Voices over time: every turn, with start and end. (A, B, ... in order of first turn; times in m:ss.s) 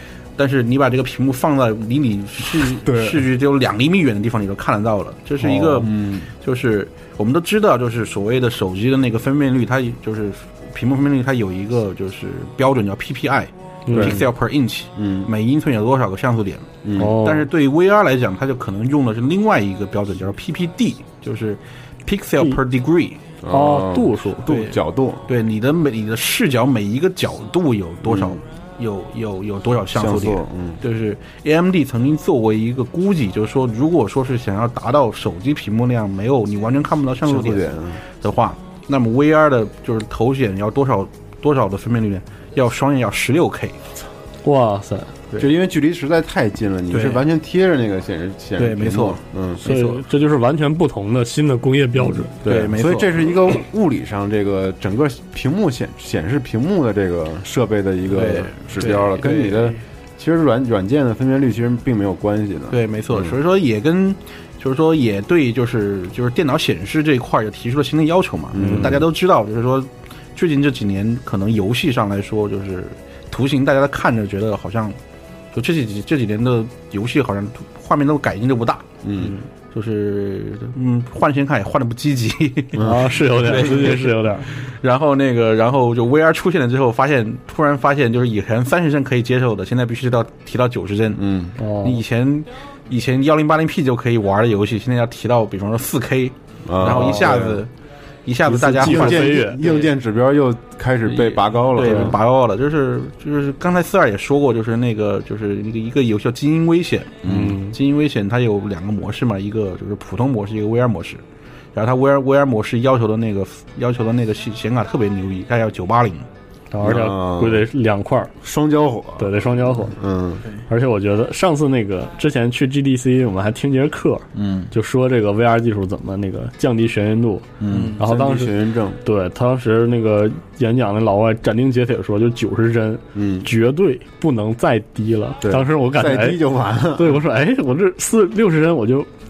0:00.4-0:23.3 A
0:02.6-0:03.3 B
0:05.4-0:06.3 B
0:13.8-0:14.2 C
0:13.9-0:14.2 B
0:15.0-0:15.3 B
0:16.8-0:17.2 B
0:17.0-0:17.5 C
0:23.4-0:25.3 B
0:23.5-0:24.5 C
0:24.4-0:43.8 A
0:28.0-0:28.4 B
0:29.9-0:30.8 B
0:37.2-0:38.0 B
0:44.4-0:45.1 C
0:45.4-0:49.6 B
0:46.9-0:47.2 A
0:48.6-0:50.0 A
0:49.6-0:52.3 C
0:52.0-1:03.4 B
0:52.4-0:53.3 A
0:58.1-0:59.8 A
1:02.7-1:15.0 A
1:08.5-1:09.1 B
1:08.6-1:08.8 C
1:15.5-1:31.2 A
1:19.0-1:19.3 B
1:22.8-1:23.1 B
1:22.8-1:24.5 C
1:31.1-1:31.6 B
1:31.6-1:32.0 C
1:31.8-1:37.7 A
1:36.6-1:37.6 B
1:36.8-1:37.2 C
1:38.2-1:39.9 A
1:38.4-1:42.2 B
1:38.7-1:39.6 C
1:41.0-1:51.2 A
1:47.2-1:47.6 B
1:47.2-1:47.8 C
1:51.7-1:56.3 A
1:56.7-1:58.3 C
1:56.8-1:57.7 B
1:58.4-2:00.4 B
1:59.2-2:00.0 C
2:00.7-2:16.4 C
2:07.6-2:09.0 B
2:07.7-2:08.0 A
2:13.1-2:13.5 B
2:15.4-2:17.2 B
2:16.9-2:19.1 C